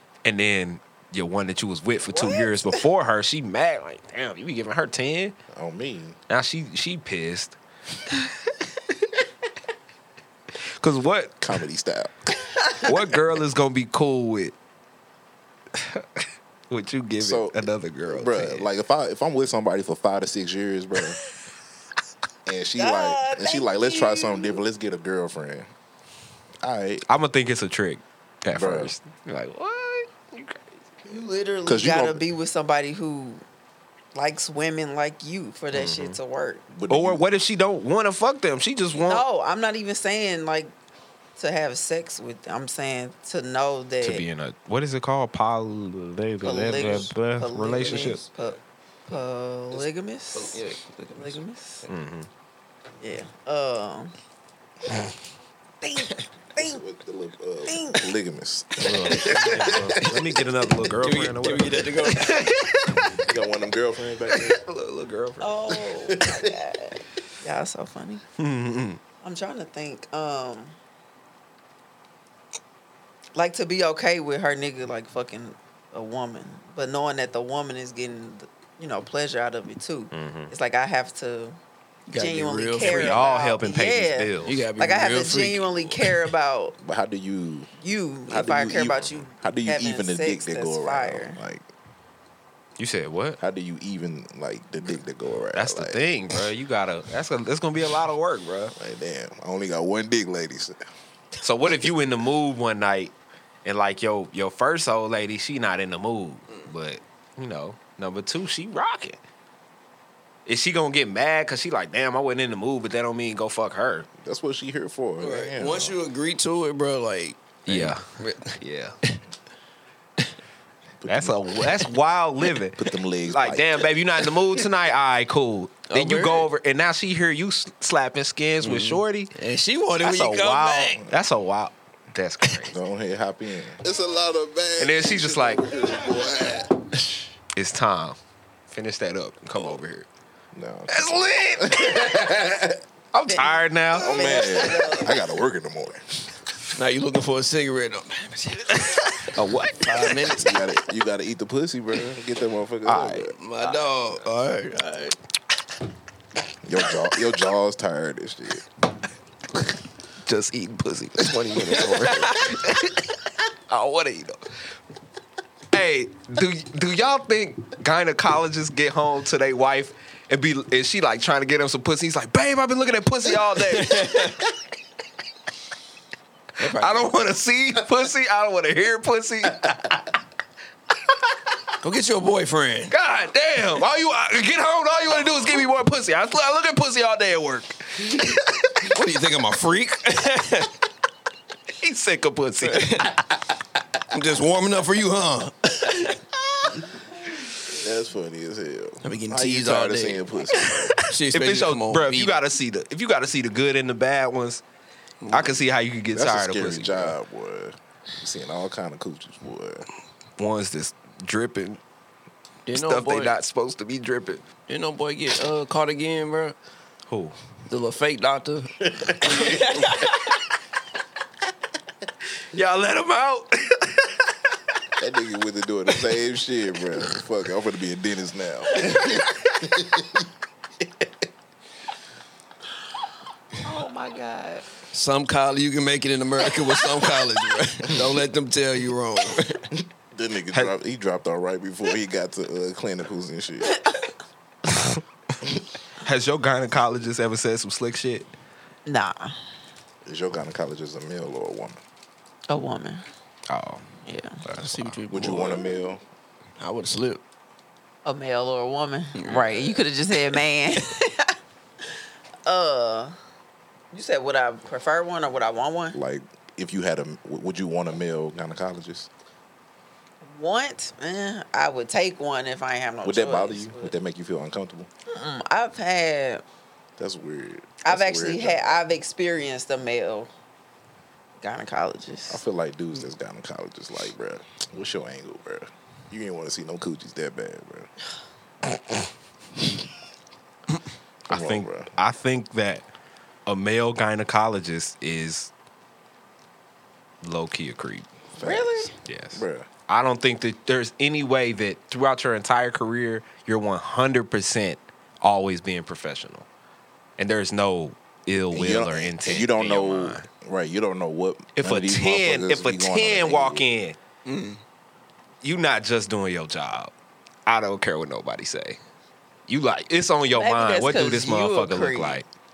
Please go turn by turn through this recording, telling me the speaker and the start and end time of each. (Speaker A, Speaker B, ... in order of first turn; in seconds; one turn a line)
Speaker A: 0.2-5.3
Speaker B: 2.1-2.8
Speaker C: 5.5-6.2
Speaker A: 6.3-7.6
Speaker A: 10.6-11.5
Speaker C: 11.4-12.6
Speaker A: 12.8-14.5
Speaker A: 15.7-18.7
Speaker C: 17.2-21.2
Speaker C: 22.5-25.7
Speaker B: 22.8-24.6
Speaker C: 26.6-27.1
Speaker A: 27.1-31.2
Speaker C: 28.5-28.9
Speaker B: 31.1-33.4
Speaker C: 31.6-32.2
Speaker B: 34.1-36.6
Speaker A: 35.7-36.2
Speaker C: 36.7-37.3
Speaker A: 36.9-39.2
Speaker B: 39.0-40.7
Speaker B: 41.4-44.3
Speaker A: 44.0-48.2
Speaker B: 46.4-50.6
Speaker D: 47.9-48.1
Speaker D: 49.7-51.4
Speaker B: 51.1-51.9
Speaker A: 51.9-52.3
Speaker B: 53.0-54.1
Speaker B: 55.8-56.8
Speaker C: 56.6-60.5
Speaker B: 57.6-58.1
Speaker A: 58.8-63.1
Speaker D: 60.8-62.5
Speaker C: 63.1-64.6
Speaker A: 64.4-65.5
Speaker B: 65.4-68.2
Speaker C: 65.7-66.6
Speaker A: 68.4-69.0
Speaker B: 69.2-70.8
Speaker B: 73.3-81.6
Speaker A: 80.1-80.5
Speaker D: 82.1-83.3
Speaker B: 82.1-86.8
Speaker A: 82.8-84.6
Speaker D: 84.4-86.2
Speaker C: 86.8-87.7
Speaker B: 87.8-91.4
Speaker C: 88.3-91.6
Speaker A: 89.0-89.2
Speaker A: 92.8-93.4
Speaker C: 93.4-96.1
Speaker A: 95.5-98.8
Speaker C: 98.8-100.8
Speaker A: 101.4-103.1
Speaker A: 103.6-109.2
Speaker A: 110.5-114.1
Speaker C: 114.2-116.0
Speaker D: 115.2-118.6
Speaker A: 117.7-118.0
Speaker A: 118.6-119.0
Speaker C: 121.0-121.6
Speaker A: 121.1-129.3
Speaker C: 122.8-123.9
Speaker D: 125.9-126.5
Speaker D: 128.6-131.1
Speaker A: 130.0-132.7
Speaker C: 132.7-133.8
Speaker E: 133.8-136.8
Speaker A: 134.8-135.8
Speaker A: 137.5-138.2
Speaker A: 138.7-140.1
Speaker C: 140.5-142.8
Speaker A: 140.9-142.3
Speaker A: 143.1-144.9
Speaker B: 143.3-145.2
Speaker C: 143.9-146.3
Speaker D: 146.7-149.1
Speaker A: 148.9-150.3
Speaker D: 149.8-150.6
Speaker C: 150.3-153.3
Speaker A: 152.9-153.8
Speaker D: 153.4-155.2
Speaker C: 156.6-158.6
Speaker A: 160.2-164.5
Speaker D: 161.8-162.3
Speaker A: 165.7-174.5
Speaker D: 173.7-174.4
Speaker D: 176.6-177.1
Speaker A: 176.6-180.1
Speaker D: 181.8-182.9
Speaker A: 182.9-188.9
Speaker D: 188.8-190.7
Speaker A: 191.8-193.2
Speaker D: 192.6-193.2
Speaker D: 194.1-196.2
Speaker C: 197.7-200.9
Speaker D: 199.0-202.4
Speaker A: 201.3-204.6
Speaker D: 205.2-205.7
Speaker A: 205.3-207.1
Speaker C: 206.1-209.9
Speaker A: 210.4-211.8
Speaker D: 212.7-213.3
Speaker A: 212.7-214.5
Speaker D: 214.7-216.6
Speaker A: 217.1-217.4
Speaker D: 217.7-219.9
Speaker A: 219.0-220.3
Speaker A: 222.5-224.2
Speaker C: 225.0-230.2
Speaker A: 228.9-229.2
Speaker B: 233.6-234.7
Speaker D: 234.9-239.7
Speaker C: 239.7-243.8
Speaker A: 244.7-245.0
Speaker A: 246.0-248.3
Speaker B: 248.9-249.4
Speaker C: 250.1-251.8
Speaker B: 252.5-253.0
Speaker A: 253.5-253.9
Speaker B: 254.1-254.4
Speaker A: 254.4-255.0
Speaker D: 254.5-255.7
Speaker C: 255.1-256.0
Speaker D: 256.6-257.2
Speaker B: 258.0-261.4
Speaker D: 259.1-260.4
Speaker B: 261.9-263.1
Speaker B: 263.9-266.0
Speaker C: 265.9-269.1
Speaker B: 270.2-273.9
Speaker C: 273.0-274.9
Speaker B: 275.1-276.4
Speaker C: 277.0-278.8
Speaker B: 277.8-280.3
Speaker B: 281.4-282.4
Speaker C: 282.3-287.9
Speaker A: 291.3-292.9
Speaker C: 291.3-291.9
Speaker A: 293.5-295.5
Speaker A: 297.2-298.1
Speaker C: 298.4-299.7
Speaker B: 298.4-298.9
Speaker A: 299.0-306.5
Speaker A: 307.2-310.2
Speaker C: 308.5-313.7
Speaker A: 311.6-314.0
Speaker D: 314.2-314.6
Speaker A: 315.4-316.9
Speaker A: 317.5-318.8
Speaker A: 319.5-322.2
Speaker B: 320.4-322.2